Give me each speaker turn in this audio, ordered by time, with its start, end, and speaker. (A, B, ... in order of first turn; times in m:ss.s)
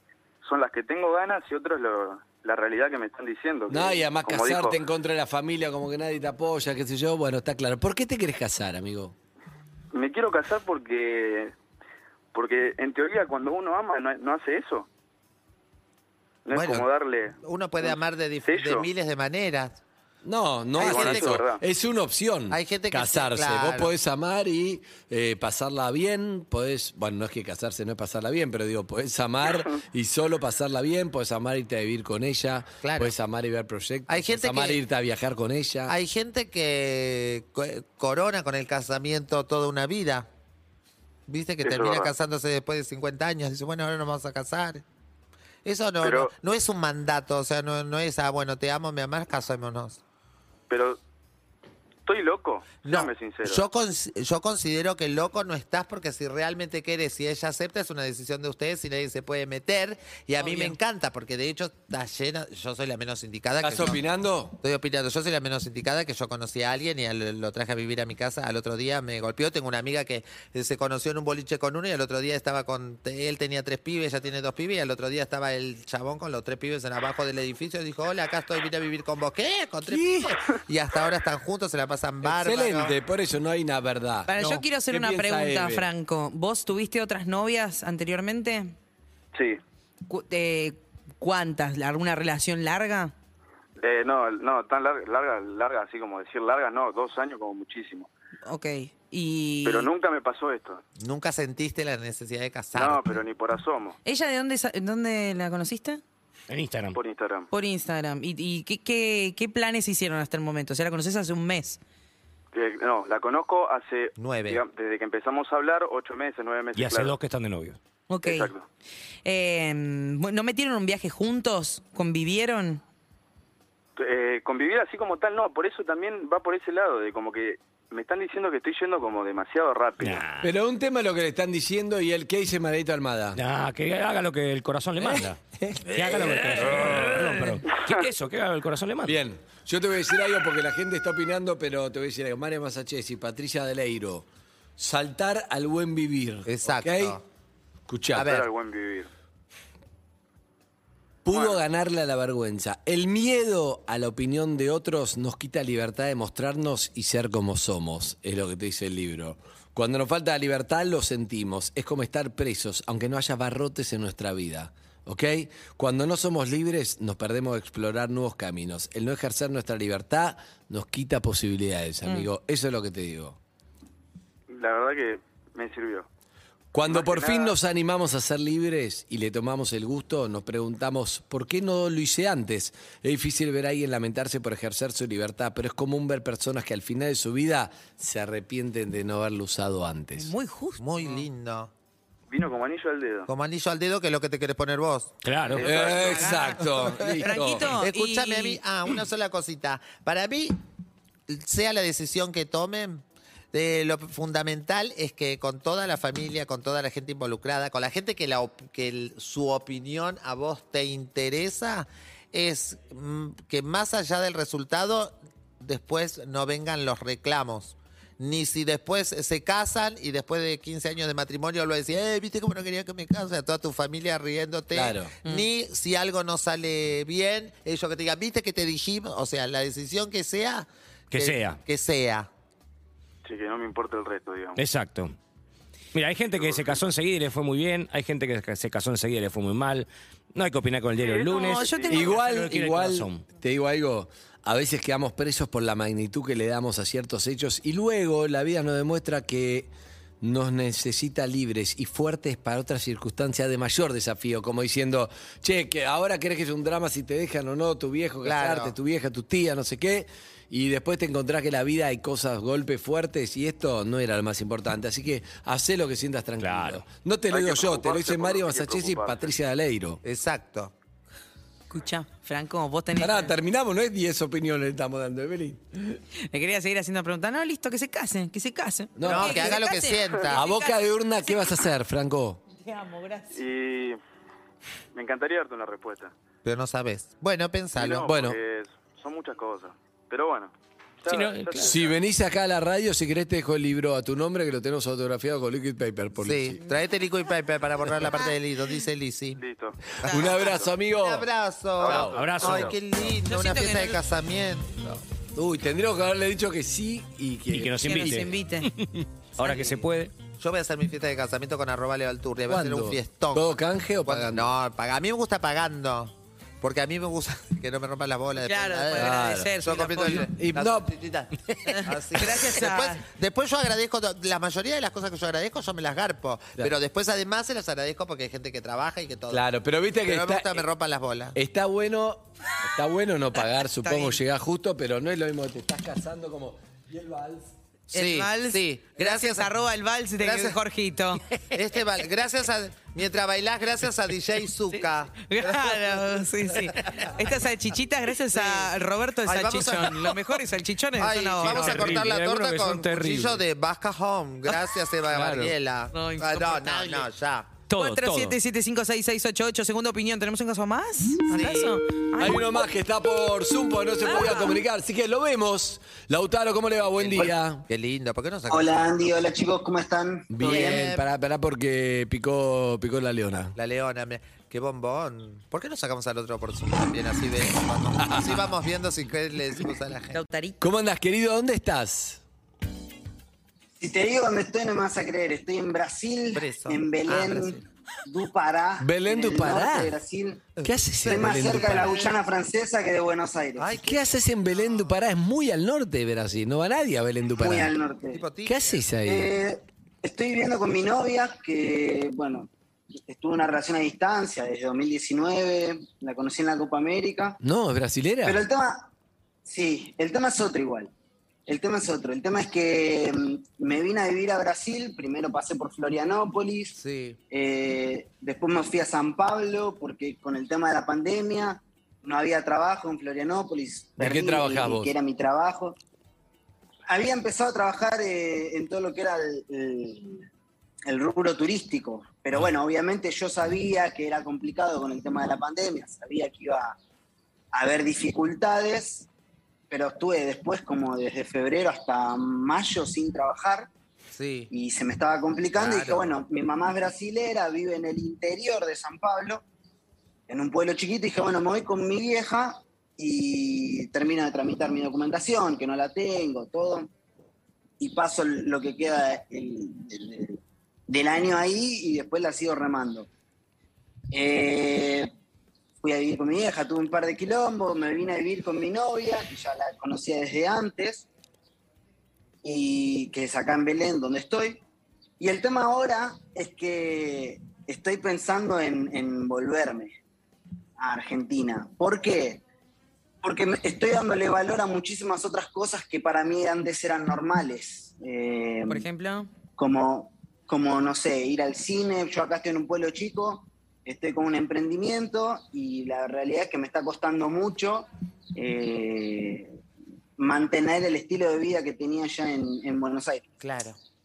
0:00.4-0:04.8 A
0:03.7-0:09.1 B
0:09.9-0:11.5 A
0:12.3-0:14.9 A
0:16.4-0:18.9 A
0:16.5-0:16.9 C
0:17.4-0:19.8 C
0:20.2-0:35.9 B
0:20.8-0:21.4 C
0:20.8-0:21.6 A
0:22.5-0:23.9 C
0:32.8-0:33.1 C
0:34.1-0:34.8 C
0:35.9-0:40.3 C
0:41.3-0:44.8 C
0:41.6-0:42.1 A
0:45.6-0:50.0 C
0:46.0-0:46.3 A
0:50.7-0:51.0 A
0:52.0-0:53.7 A
0:52.8-1:04.0 C
1:00.4-1:00.8 D
1:03.6-1:04.6 B
1:04.6-1:22.9 C
1:19.8-1:20.3 B
1:22.2-1:25.9 B
1:24.3-1:28.7 D
1:30.1-1:33.1 D
1:33.8-1:38.1 A
1:38.4-1:39.9 D
1:39.6-1:40.8 A
1:41.0-1:43.2 C
1:42.7-1:44.0 A
1:44.0-1:46.0 D
1:46.5-1:47.0 E
1:46.9-1:47.5 A
1:47.5-1:51.8 D
1:52.5-1:57.2 A
1:54.2-1:54.6 C
1:56.8-1:57.8 E
1:58.1-1:58.5 D
1:58.2-1:58.6 A
1:59.2-2:02.8 D
2:04.0-2:10.2 A
2:10.0-2:10.5 E
2:10.4-2:13.4 B
2:13.3-2:15.4 E
2:15.0-2:17.6 B
2:15.9-2:19.2 E
2:19.0-2:24.3 B
2:24.8-2:27.2 B
2:26.4-2:27.2 C
2:27.9-2:28.3 B
2:28.1-2:28.5 C
2:28.2-2:29.1 A
2:31.2-2:53.4 B
2:31.3-2:31.6 A
2:54.5-2:56.1 A
2:56.7-3:10.3 B
2:56.8-2:57.6 A
3:10.2-3:11.2 D
3:10.8-3:11.7 C
3:12.3-3:13.3 A
3:13.3-3:15.9 C
3:15.2-3:15.7 E
3:15.5-3:17.8 B
3:15.6-3:16.5 A
3:15.6-3:18.6 D
3:17.6-3:20.6 C
3:21.3-3:23.0 C
3:23.5-3:52.3 C
3:44.7-3:45.1 B
3:51.1-3:51.6 E
3:53.2-3:54.6 A
3:54.6-3:55.2 E
3:55.9-4:01.7 E
3:56.4-3:56.8 A
4:01.0-4:02.4 A
4:01.3-4:02.2 D
4:01.8-4:30.0 B
4:02.2-4:03.2 E
4:18.2-4:18.7 C
4:26.4-4:26.8 E
4:27.3-4:29.3 A
4:30.0-4:30.7 C
4:31.7-4:33.3 D
4:33.0-4:36.0 B
4:36.3-4:41.6 D
4:39.0-4:39.6 B
4:39.0-4:40.4 C
4:40.3-4:42.4 B
4:42.6-4:43.4 D
4:43.3-4:44.0 A
4:44.9-4:46.1 A
4:46.4-4:48.1 C
4:47.7-4:52.0 A
4:48.1-4:48.4 B
4:51.1-4:51.8 E
4:51.6-4:56.6 B
4:56.2-4:59.4 C
4:59.4-5:00.6 A
5:00.0-5:05.0 C
5:00.1-5:01.3 B
5:01.8-5:02.8 A
5:01.8-5:02.7 B
5:02.1-5:02.6 E
5:03.2-5:04.0 D
5:05.3-5:08.3 B
5:07.5-5:08.7 E
5:07.8-5:08.7 D
5:09.4-5:10.2 E
5:09.4-5:29.4 C
5:12.5-5:14.5 B
5:18.4-5:20.3 D
5:19.0-5:19.5 B
5:20.1-5:20.9 B
5:21.7-5:23.0 D
5:29.3-5:30.6 B
5:30.0-5:31.4 C
5:31.3-5:37.5 B
5:33.7-5:34.2 D
5:37.9-5:39.5 C
5:37.9-5:41.3 D
5:40.2-5:40.6 C
5:41.5-5:47.4 C
5:44.7-5:51.9 D
5:48.3-5:48.7 C
5:49.2-5:50.3 C
5:51.0-5:57.6 C
5:51.4-5:53.4 E
5:55.1-5:55.6 E
5:55.9-5:57.1 D
5:57.7-6:02.6 D
5:57.7-5:58.4 E
6:01.3-6:01.8 C
6:02.2-6:07.6 B
6:04.0-6:04.6 D
6:06.8-6:08.7 C
6:08.5-6:10.9 F
6:10.3-6:13.5 B
6:10.4-6:11.0 C
6:13.6-6:20.2 C
6:18.0-6:18.5 B
6:20.1-6:20.6 D
6:20.6-6:22.2 B
6:23.8-6:30.4 F
6:26.3-6:27.6 C
6:28.8-6:30.0 B
6:30.6-6:32.1 C
6:30.6-6:32.0 B
6:31.0-6:33.7 F
6:33.6-6:35.0 C
6:33.8-6:37.7 B
6:37.4-6:38.2 F
6:38.1-6:38.8 C
6:38.4-6:39.3 B
6:39.0-6:42.5 F
6:43.0-6:47.4 F
6:47.4-6:48.4 B
6:48.2-6:48.9 F
6:49.4-6:50.9 F
6:51.5-6:56.7 F
6:56.8-6:57.2 C
6:57.3-7:05.8 F
7:04.0-7:04.9 B
7:06.9-7:10.2 F
7:10.8-7:16.8 F
7:17.5-7:19.1 F
7:19.7-7:23.7 F
7:24.1-7:24.5 C
7:24.5-7:29.4 F
7:25.5-7:26.1 C
7:30.3-7:36.9 F
7:37.8-7:43.1 F
7:44.1-7:45.1 F
7:45.8-7:51.1 F
7:52.4-7:54.6 F
7:55.2-7:59.9 F
8:00.8-8:02.4 F
8:03.2-8:08.9 F
8:08.7-8:09.3 D
8:09.6-8:19.6 F
8:20.2-8:23.2 F
8:23.4-8:23.8 C